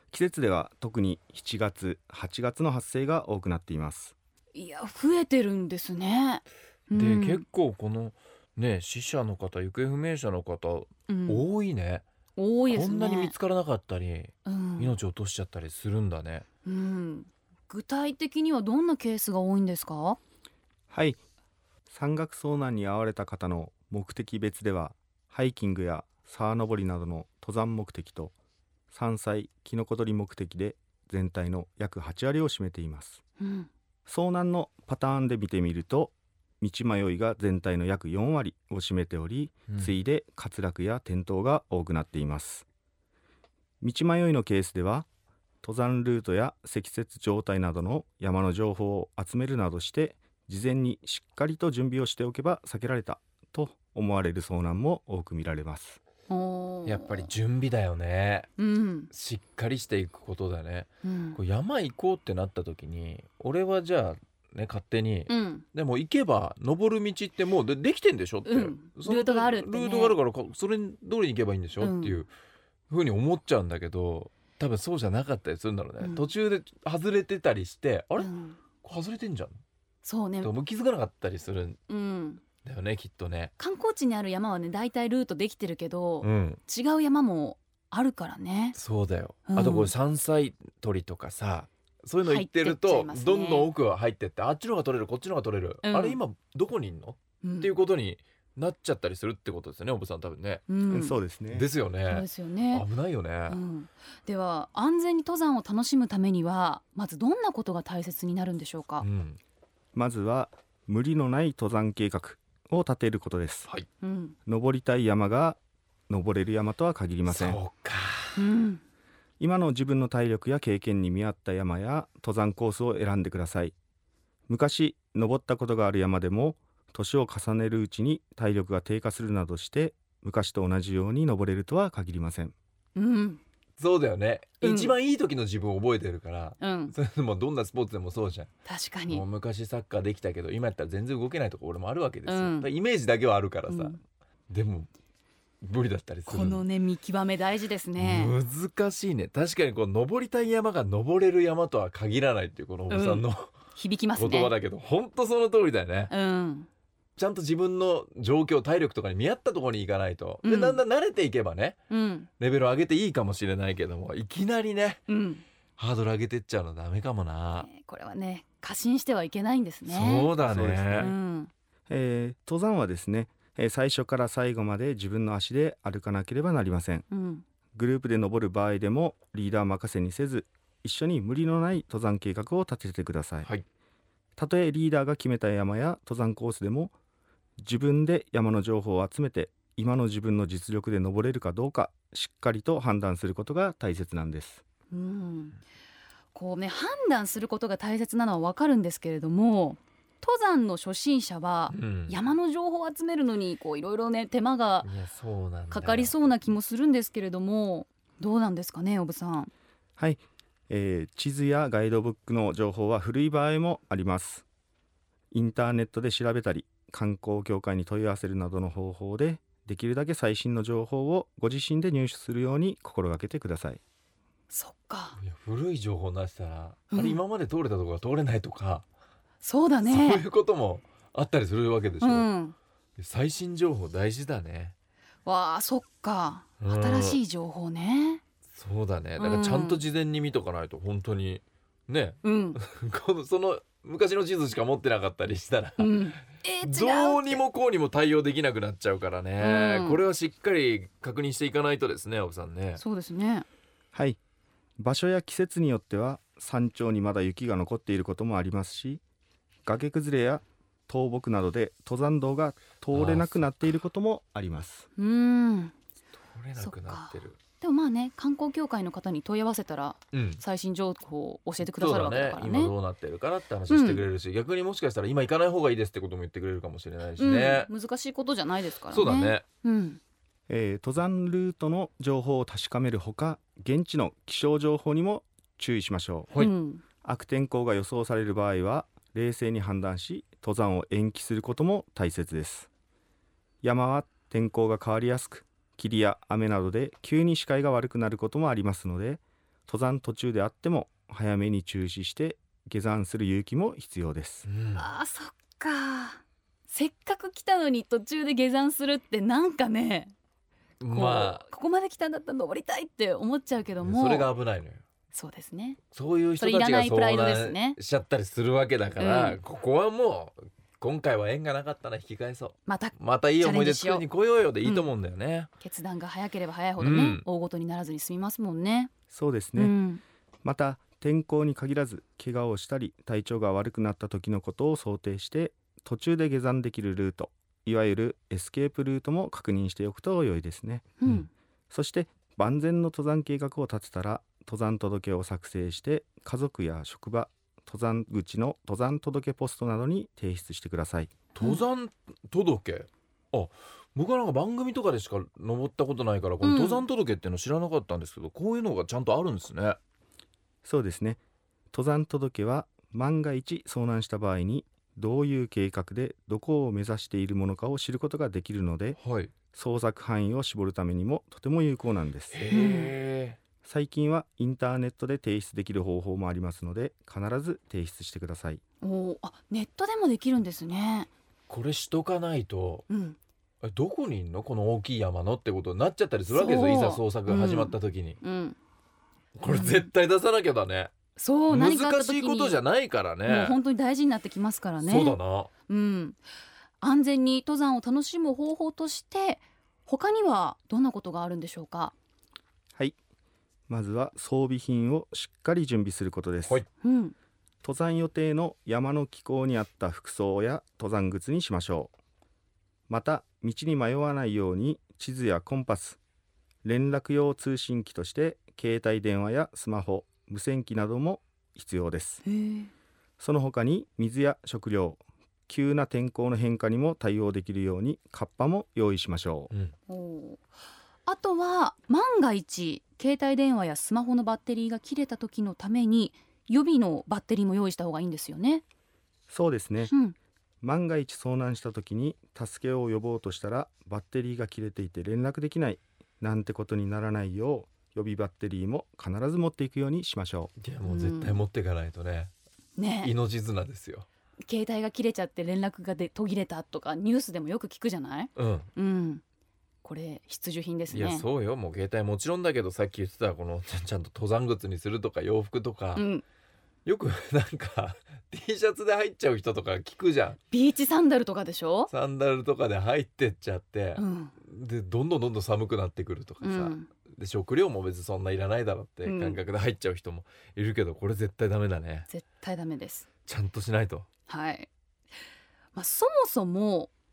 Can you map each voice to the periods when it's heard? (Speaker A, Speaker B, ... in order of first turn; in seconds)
Speaker A: 0.1-4.1, 20.9-21.2, 21.9-28.3, 28.9-33.2, 34.1-42.6, 43.8-45.1, 45.6-56.0, 100.9-101.7, 109.9-113.7, 114.5-115.6, 116.1-117.6, 119.4-123.7, 124.5-132.5, 170.4-171.2, 171.9-177.1, 177.8-183.5, 184.4-186.9, 187.6-194.6, 210.0-214.4, 215.3-223.8, 253.9-254.2, 254.8-259.0, 259.6-264.9, 280.5-286.3, 287.0-292.7, 293.6-304.4, 329.1-329.7, 330.4-341.0, 341.7-351.2, 360.6-361.2, 361.7-369.0, 369.5-372.4, 373.6-378.6, 403.7-406.6, 407.6-411.9, 412.9-416.0, 416.6-422.2, 423.2-429.5, 439.3-439.9, 440.6-450.5
Speaker B: 4.5-7.4, 11.1-11.5, 12.4-13.3, 14.5-15.0, 16.6-20.2, 33.4-33.7, 56.3-57.3, 58.6-59.1, 61.0-61.4, 65.3-65.7, 68.5-70.2, 71.8-72.2, 76.0-76.3, 78.2-78.6, 80.0-80.5, 81.9-82.4, 83.6-88.8, 89.5-89.9, 92.2-93.7, 95.8-96.2, 97.4-97.7, 100.7-101.2, 102.1-102.9, 103.5-109.1, 114.0-114.4, 118.4-118.8, 133.0-133.4, 134.6-134.9, 136.6-136.9, 138.7-139.2, 142.3-142.7, 143.7-144.0, 146.3-148.3, 152.9-154.6, 156.1-156.7, 160.4-160.8, 161.9-162.3, 165.1-165.4, 167.6-170.4, 170.9-171.5, 177.1-177.4, 194.9-195.6, 196.3-204.9, 205.7-209.5, 224.5-225.2, 226.9-227.2, 229.4-230.2, 232.0-232.6, 235.2-238.2, 239.2-239.8, 242.2-242.6, 245.8-247.4, 249.4-250.0, 252.8-253.5, 265.0-265.7, 266.6-272.7, 273.7-274.1, 277.2-280.0, 286.4-286.8, 304.8-310.1, 310.9-314.3, 315.1-315.8, 316.4-317.8, 319.0-319.4, 322.7-324.1, 324.6-324.9, 325.6-328.9, 329.6-330.0, 341.0-341.3, 356.4-356.8, 372.5-372.9, 378.8-381.1, 382.9-383.2, 386.3-388.6, 389.5-389.9, 391.2-392.6, 393.2-396.2, 396.8-401.9, 406.8-407.1, 422.2-422.7, 429.9-430.5, 431.1-438.6, 439.9-440.2, 450.8-451.4, 452.8-453.1, 454.5-459.2, 459.8-461.3, 465.9-466.2, 470.5-471.9, 474.0-474.4, 476.4-476.9, 479.0-479.4, 482.1-483.1, 484.3-484.7, 485.8-486.9
Speaker C: 6.9-12.0, 12.7-16.4, 56.9-58.5, 59.1-72.3, 72.9-78.3, 78.8-79.6, 80.4-81.8, 82.6-83.5, 86.2-86.6, 88.8-100.7, 101.5-103.6, 109.0-109.4, 117.3-118.4, 133.8-138.5, 139.1-144.9, 145.6-146.6, 148.0-153.6, 154.2-156.1, 157.2-161.8, 162.4-165.0, 165.8-167.7, 169.9-171.1, 201.7-202.2, 204.8-206.2, 225.2-228.8, 229.9-232.3, 233.0-234.7, 236.6-237.2, 238.6-246.1, 246.6-252.8, 262.9-263.5, 266.3-267.4, 270.1-270.4, 271.6-277.7, 278.9-279.4, 304.5-304.9, 310.8-311.5, 313.8-314.8, 315.9-325.5, 326.8-327.2, 351.4-359.8, 369.0-369.3, 372.3-373.4, 381.5-382.9, 383.6-388.2, 389.4-390.9, 391.5-393.6, 394.8-395.5, 450.6-452.3, 453.0-454.1, 458.4-458.7, 460.9-466.1, 466.9-470.4, 471.9-482.1, 483.3-484.1